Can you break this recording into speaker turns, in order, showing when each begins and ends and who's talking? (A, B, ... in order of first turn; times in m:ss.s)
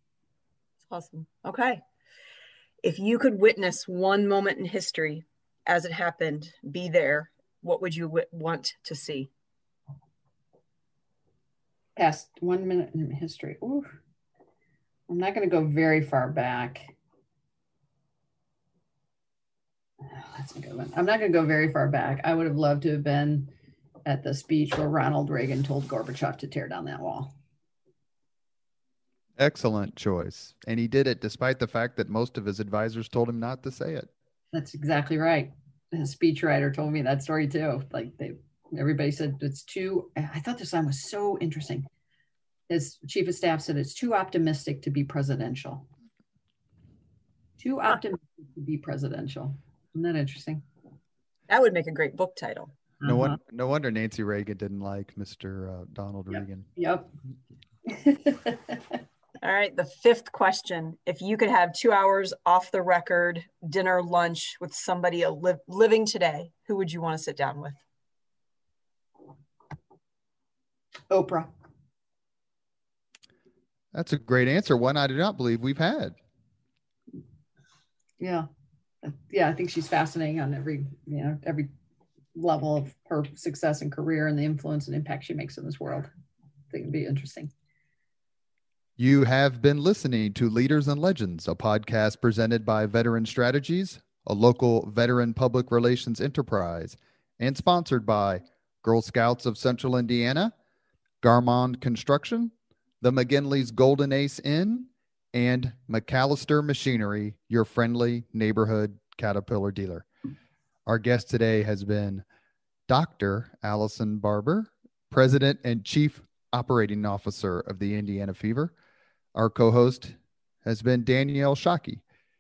0:00.9-0:01.8 A
0:02.8-0:09.3 A
0:12.0-0:13.9 B
0:15.1-0:16.9 B
0:20.0-0:23.5 B
0:24.1-0:27.3 B
0:29.4-0:34.1 C
0:34.5-0:41.9 B
0:42.7-0:45.9 B
0:47.6-0:50.6 B
0:51.5-0:52.7 A
0:53.0-0:53.4 B
0:53.0-0:56.7 C
0:56.3-0:57.1 B
0:57.9-0:59.0 B
0:59.4-1:07.8 A
1:11.1-1:11.5 B
1:13.9-1:16.2 C
1:18.2-1:18.5 B
1:19.0-1:21.7 B
1:22.4-1:26.1 B
1:26.7-1:27.5 B
1:29.0-1:40.5 C
1:41.2-1:50.1 C
1:50.9-1:52.2 C
1:52.9-1:58.7 C
1:59.4-2:02.0 C